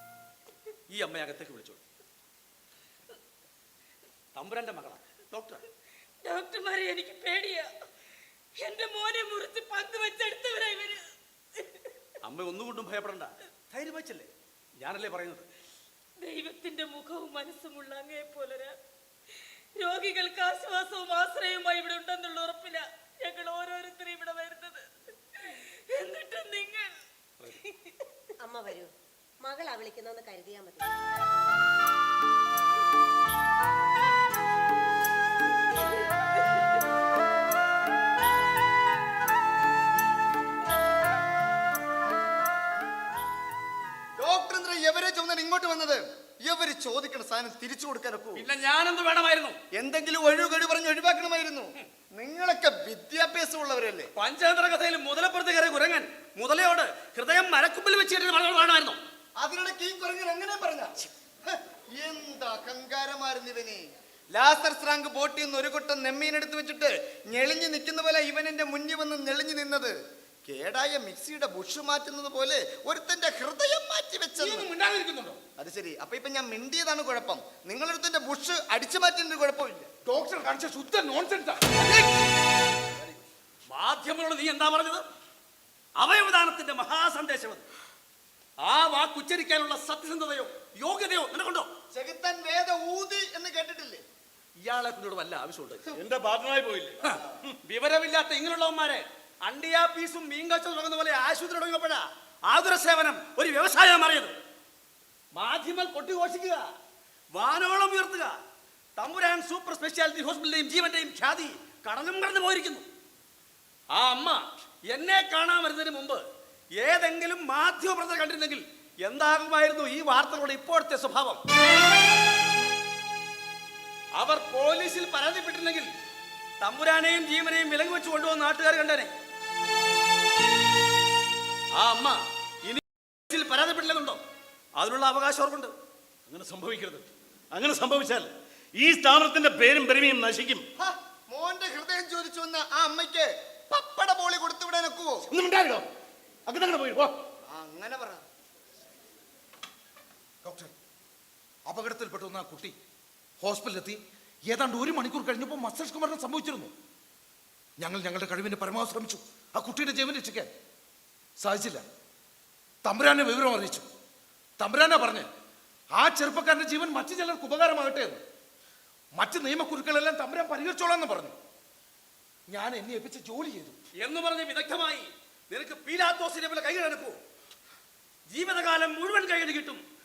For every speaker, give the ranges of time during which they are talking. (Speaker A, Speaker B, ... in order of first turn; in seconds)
Speaker A: 0.9-1.8, 4.3-5.6, 12.2-15.5, 48.3-49.6, 54.1-59.0, 81.8-82.1, 83.0-85.0, 86.0-87.7, 88.6-91.7, 94.6-95.8, 97.0-104.3, 105.3-106.7, 107.3-108.4, 109.0-112.9, 113.9-116.2, 116.8-121.4, 124.1-125.9, 126.6-129.1, 131.7-134.2, 134.8-135.7, 174.0-177.2, 178.3-179.8
Speaker B: 6.2-7.7, 8.6-11.0, 11.6-11.9, 16.2-18.7, 19.4-26.9, 27.5-27.9
Speaker C: 28.4-30.9
Speaker D: 44.2-48.5, 49.7-54.1, 59.4-74.7, 75.6-79.9, 91.9-94.0, 140.8-145.2, 147.5-148.2
Speaker E: 74.4-75.4, 80.0-81.7, 150.4-150.7, 151.7-152.7, 153.4-156.7, 157.8-160.5, 161.4-161.8, 162.8-163.8, 164.6-165.3, 165.9-168.2, 169.2-171.3, 172.5-173.8
Speaker F: 95.9-97.1, 136.3-140.7, 145.3-145.9, 146.5-147.2